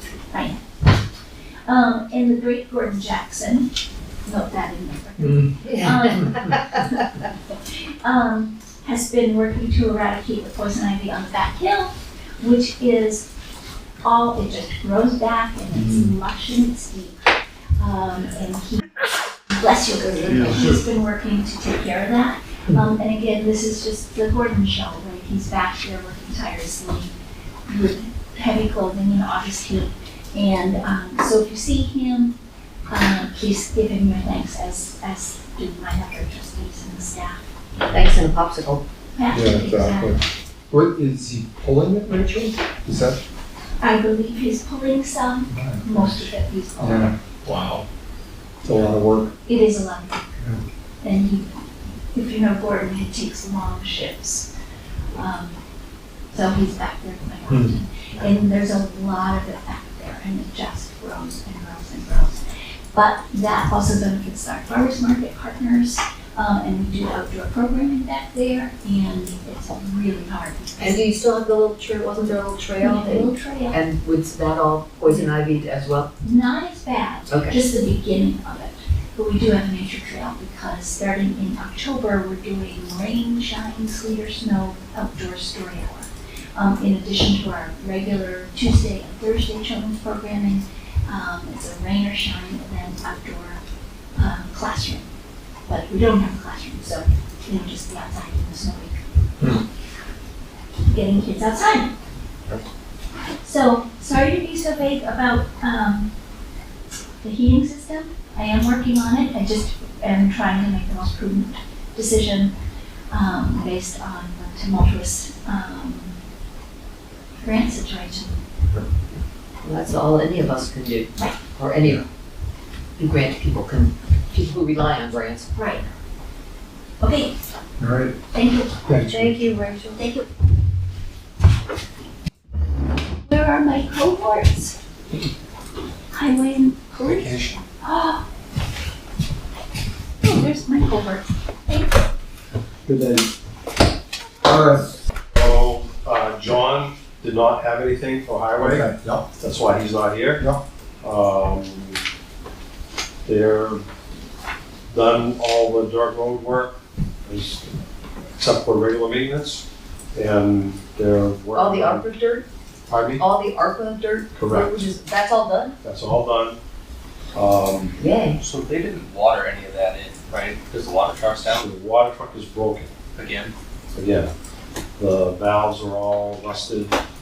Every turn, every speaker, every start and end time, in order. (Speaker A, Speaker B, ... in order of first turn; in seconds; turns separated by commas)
Speaker A: 0.3-0.9, Speaker A: 1.7-3.7, Speaker A: 4.2-7.1, Speaker B: 5.6-6.6, Speaker A: 8.0-13.3, Speaker A: 14.0-17.2, Speaker C: 15.7-16.1, Speaker A: 17.8-18.9, Speaker A: 19.5-27.1, Speaker C: 20.4-20.8, Speaker A: 27.7-32.4, Speaker A: 32.9-37.4, Speaker B: 37.9-38.8, Speaker A: 39.1-40.3, Speaker C: 39.3-43.2, Speaker A: 43.8-47.1, Speaker C: 45.5-47.8, Speaker C: 48.6-49.3, Speaker A: 49.5-50.3, Speaker A: 51.0-54.5, Speaker A: 55.1-55.6, Speaker A: 56.3-62.4, Speaker A: 62.9-71.0, Speaker B: 70.8-76.1, Speaker A: 72.8-73.8, Speaker A: 75.1-75.3, Speaker A: 76.2-93.6, Speaker B: 77.3-77.6, Speaker A: 94.2-95.1, Speaker A: 95.7-99.0, Speaker A: 100.9-101.9, Speaker A: 103.4-106.1, Speaker A: 107.2-112.5, Speaker A: 113.1-116.2, Speaker A: 117.4-118.4, Speaker B: 119.6-122.0, Speaker B: 123.0-125.5, Speaker A: 125.5-125.9, Speaker A: 127.0-127.4, Speaker C: 127.8-128.2, Speaker A: 128.3-128.8, Speaker C: 128.9-129.6, Speaker B: 129.1-130.0, Speaker A: 130.0-130.3, Speaker A: 133.3-134.8, Speaker A: 136.1-138.2, Speaker C: 137.0-137.6, Speaker A: 140.2-142.1, Speaker C: 142.9-143.3, Speaker C: 144.4-144.9, Speaker D: 145.3-150.5, Speaker C: 148.6-149.2, Speaker D: 151.0-152.0, Speaker D: 153.3-153.8, Speaker D: 154.9-157.8, Speaker D: 158.4-162.1, Speaker B: 161.6-162.4, Speaker D: 162.9-163.2, Speaker B: 163.2-165.8, Speaker D: 164.3-164.9, Speaker D: 165.8-166.6, Speaker D: 167.3-168.0, Speaker B: 168.0-168.4, Speaker E: 168.4-171.7, Speaker D: 171.4-172.9, Speaker E: 173.2-173.5, Speaker D: 173.9-174.3, Speaker D: 175.0-177.0